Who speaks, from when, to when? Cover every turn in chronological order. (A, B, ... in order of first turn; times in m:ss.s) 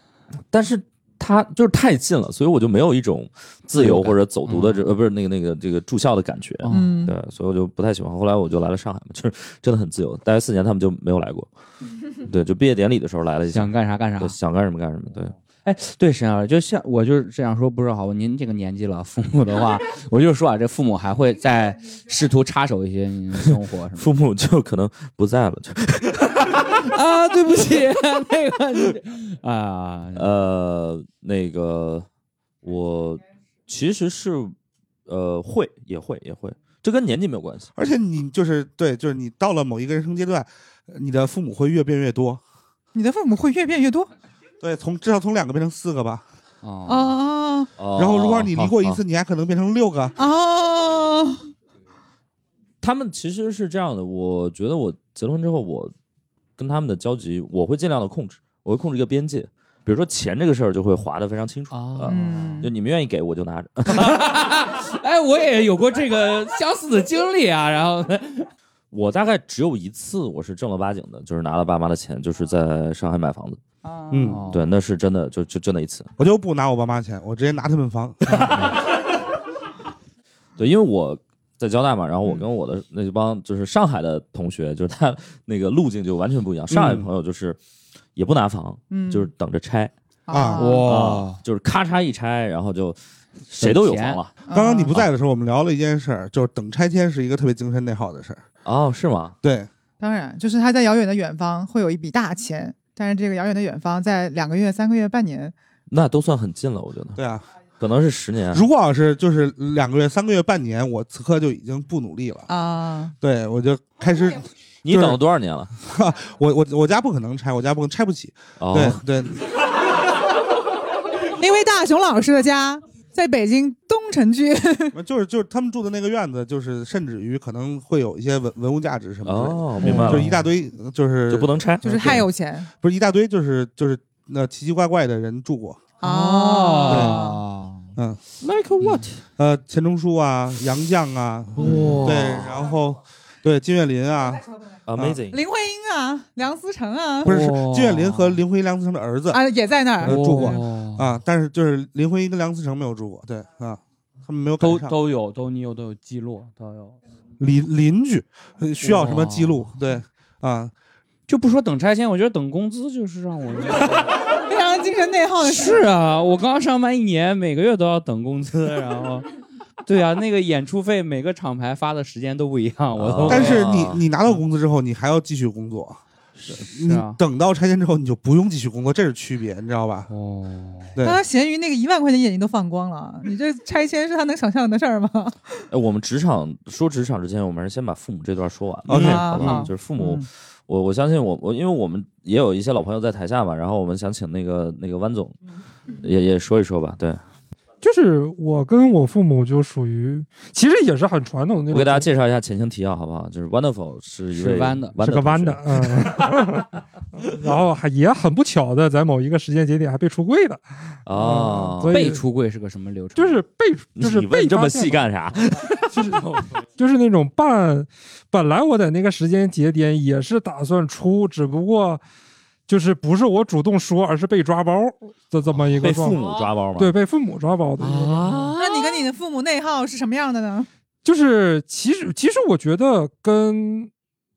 0:00.5-0:11.5 A
0:03.8-0:04.9 B
0:06.6-0:07.0 B
0:06.7-0:07.1 C
0:12.2-0:15.3 A
0:13.5-0:14.4 B
0:15.6-0:24.1 B
0:24.0-0:26.7 A
0:26.6-0:30.3 B
0:30.2-0:32.1 A
0:32.6-0:34.5 A
0:35.1-0:37.7 A
0:37.8-0:42.4 D
0:42.9-0:44.1 C
0:44.6-0:46.2 D
0:46.6-0:47.2 B
0:46.9-0:47.7 C
0:47.8-0:49.0 A
0:48.0-0:50.2 D
0:50.2-0:51.4 C
0:52.8-0:55.9 A
0:56.6-1:04.3 A
1:01.7-1:02.7 B
1:02.1-1:02.7 C
1:03.9-1:08.5 B
1:08.9-1:13.6 A
1:13.8-1:14.4 C
1:14.1-1:14.4 D
1:14.3-1:14.7 B
1:14.5-1:16.1 A
1:16.2-1:18.6 D
1:18.3-1:18.6 A
1:20.6-1:27.6 A
1:26.7-1:27.1 D
1:28.2-1:29.9 A
1:28.9-1:29.3 C
1:30.3-1:30.9 C
1:30.3-1:30.8 D
1:30.6-1:31.4 B
1:30.8-1:34.3 A
1:33.6-1:34.2 B
1:34.5-1:34.9 C
1:34.5-1:38.4 D
1:38.6-1:39.4 A
1:39.4-1:39.7 D
1:40.0-1:45.5 C
1:45.9-1:47.2 A
1:47.2-1:47.4 D
1:47.8-1:48.6 A
1:48.5-1:52.5 D
1:52.5-1:53.1 C
1:53.2-1:55.2 D
1:54.8-1:55.7 A
1:55.8-1:59.4 D
1:58.6-1:59.0 A
2:01.4-2:05.0 C
2:04.9-2:12.3 D
2:09.2-2:10.3 A
2:09.8-2:10.4 B
2:11.3-2:12.1 A
2:11.8-2:12.7 C
2:12.8-2:15.9 D
2:16.0-2:17.4 C
2:16.0-2:17.9 B
2:16.9-2:17.2 D
2:18.4-2:19.2 A
2:19.4-2:24.4 D
2:21.6-2:22.6 B
2:21.6-2:22.0 A
2:24.9-2:25.4 A
2:25.3-2:27.3 C
2:27.2-2:28.4 B
2:27.2-2:29.4 D
2:29.3-2:30.6 C
2:30.0-2:35.0 D
2:30.0-2:31.1 B
2:34.6-2:37.0 B
2:37.4-2:40.7 D
2:38.8-2:39.7 B
2:41.3-2:44.1 B
2:44.5-2:45.8 C
2:45.4-2:49.3 B
2:49.8-2:54.0 B
2:53.0-2:54.0 A
2:53.3-3:00.1 D
2:56.4-2:57.2 B
3:00.1-3:01.0 B
3:01.0-3:01.2 D
3:01.0-3:05.6 C
3:05.7-3:15.4 A
3:08.9-3:09.7 D
3:08.9-3:10.3 C
3:16.0-3:17.2 A
3:17.8-3:22.1 E
3:21.7-3:26.1 A
3:24.4-3:25.1 B
3:25.0-3:32.2 E
3:31.1-3:32.0 A
3:31.9-3:33.4 B
3:33.2-3:35.1 E
3:34.0-3:36.2 A
3:35.8-3:42.0 E
3:42.7-3:46.2 E
3:45.8-3:46.9 A
3:46.1-3:46.5 B
3:46.8-3:48.4 E
3:47.8-3:49.0 B
3:48.6-3:50.7 C
3:51.0-3:53.9 E